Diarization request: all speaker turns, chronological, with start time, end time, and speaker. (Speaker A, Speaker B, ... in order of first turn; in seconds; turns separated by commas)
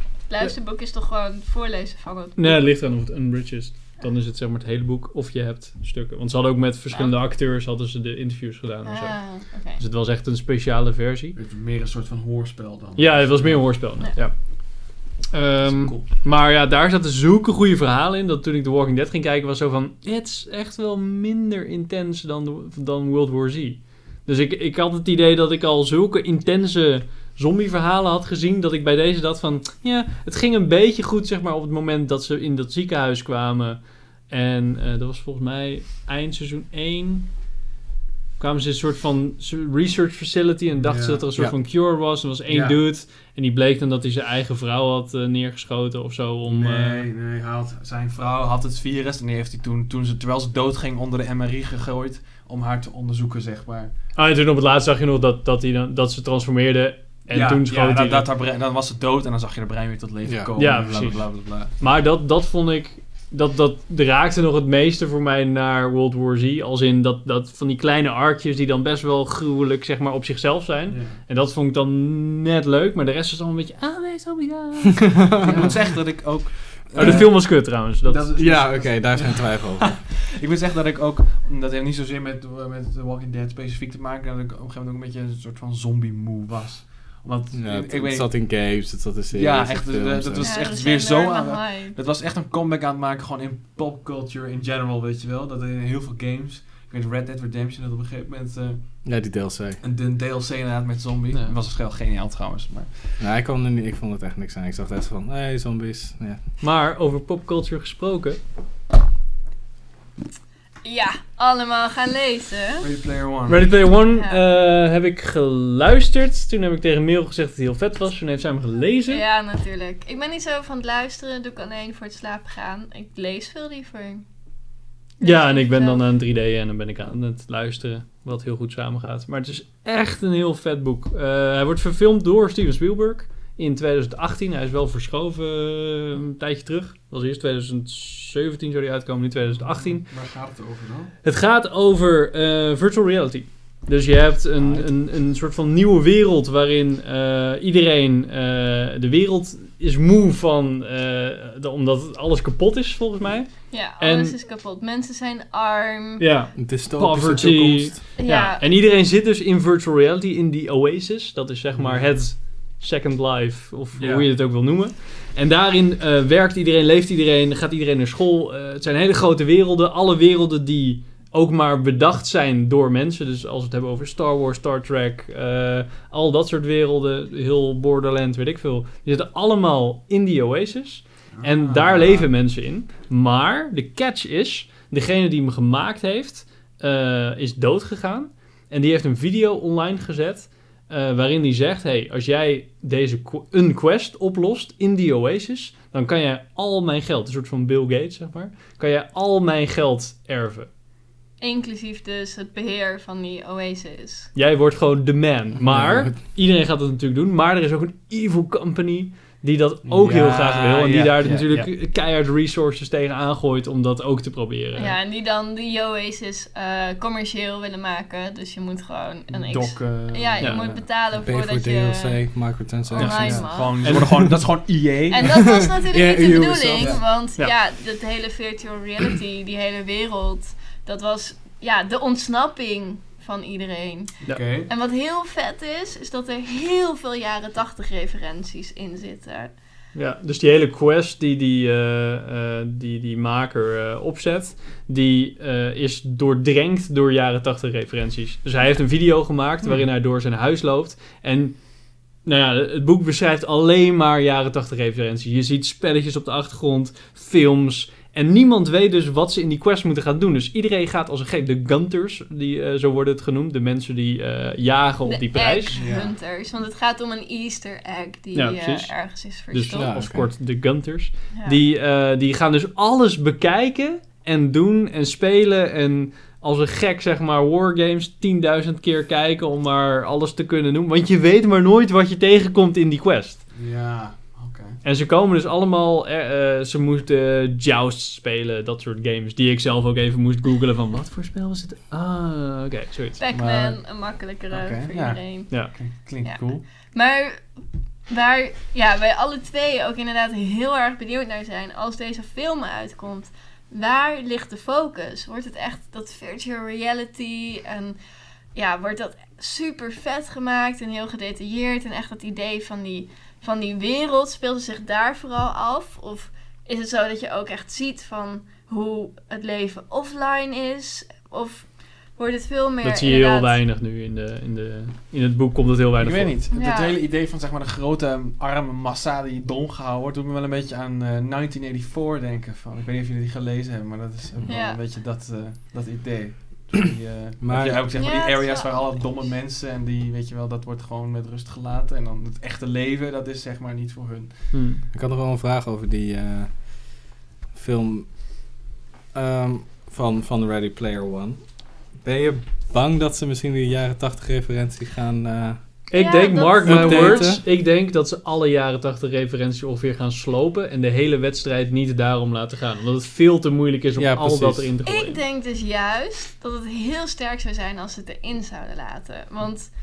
Speaker A: 0.3-2.6, Speaker B: 2.4-11.4, Speaker A: 6.9-7.2, Speaker A: 8.8-9.8, Speaker C: 11.3-13.7, Speaker B: 13.0-37.3, Speaker C: 15.6-16.1, Speaker B: 38.4-47.0, Speaker C: 40.8-41.2, Speaker C: 42.5-42.8, Speaker C: 46.5-53.9, Speaker B: 54.1-58.3, Speaker C: 57.3-61.7, Speaker D: 60.2-60.9, Speaker B: 60.6-76.0, Speaker C: 70.9-71.2, Speaker D: 75.2-75.8, Speaker C: 75.4-88.7, Speaker B: 76.9-78.5, Speaker D: 77.0-77.3, Speaker D: 78.3-80.0, Speaker D: 87.5-90.5, Speaker C: 89.3-99.0, Speaker A: 90.4-91.9, Speaker D: 99.0-99.8, Speaker C: 99.8-103.2, Speaker D: 103.2-106.4, Speaker B: 106.6-108.4, Speaker A: 110.8-112.8, Speaker C: 112.8-113.7, Speaker B: 113.5-119.2, Speaker A: 114.0-114.4, Speaker A: 119.1-124.2, Speaker A: 125.2-126.0, Speaker B: 125.2-140.1, Speaker C: 139.5-141.1, Speaker B: 141.2-154.3, Speaker C: 144.6-144.9, Speaker A: 153.7-156.2, Speaker B: 156.2-200.7, Speaker D: 156.6-158.0, Speaker A: 158.2-158.6, Speaker C: 161.7-162.1, Speaker C: 164.0-164.2, Speaker C: 181.3-182.3, Speaker A: 201.4-204.3, Speaker B: 204.3-214.9, Speaker D: 205.7-206.1, Speaker C: 209.8-211.7, Speaker A: 214.8-222.2, Speaker C: 219.3-220.8, Speaker B: 220.4-220.7, Speaker D: 221.2-224.4, Speaker A: 222.9-223.8, Speaker B: 223.0-224.1, Speaker C: 223.0-225.4, Speaker A: 225.1-239.5, Speaker D: 225.2-227.0, Speaker C: 226.8-227.0, Speaker C: 234.2-234.7, Speaker B: 239.9-251.6, Speaker B: 252.2-265.8, Speaker A: 265.1-269.9, Speaker C: 265.7-266.1, Speaker B: 268.3-268.9, Speaker B: 269.5-283.5, Speaker D: 269.7-270.3, Speaker A: 271.3-271.6, Speaker C: 283.5-284.8, Speaker B: 284.8-293.2, Speaker A: 293.2-295.6, Speaker C: 293.3-293.8, Speaker C: 294.5-296.6, Speaker B: 295.5-295.8, Speaker A: 296.2-297.4, Speaker A: 298.1-307.9, Speaker A: 308.5-323.6, Speaker B: 322.8-326.4, Speaker C: 326.0-344.5, Speaker A: 326.5-327.0, Speaker A: 334.4-334.8, Speaker D: 337.4-337.9, Speaker A: 337.9-338.9, Speaker B: 344.5-344.8, Speaker D: 344.9-348.1, Speaker D: 349.1-351.4, Speaker D: 351.9-355.6, Speaker B: 355.9-365.2, Speaker A: 355.9-357.3, Speaker D: 356.6-357.4, Speaker D: 363.9-364.7, Speaker A: 364.9-369.7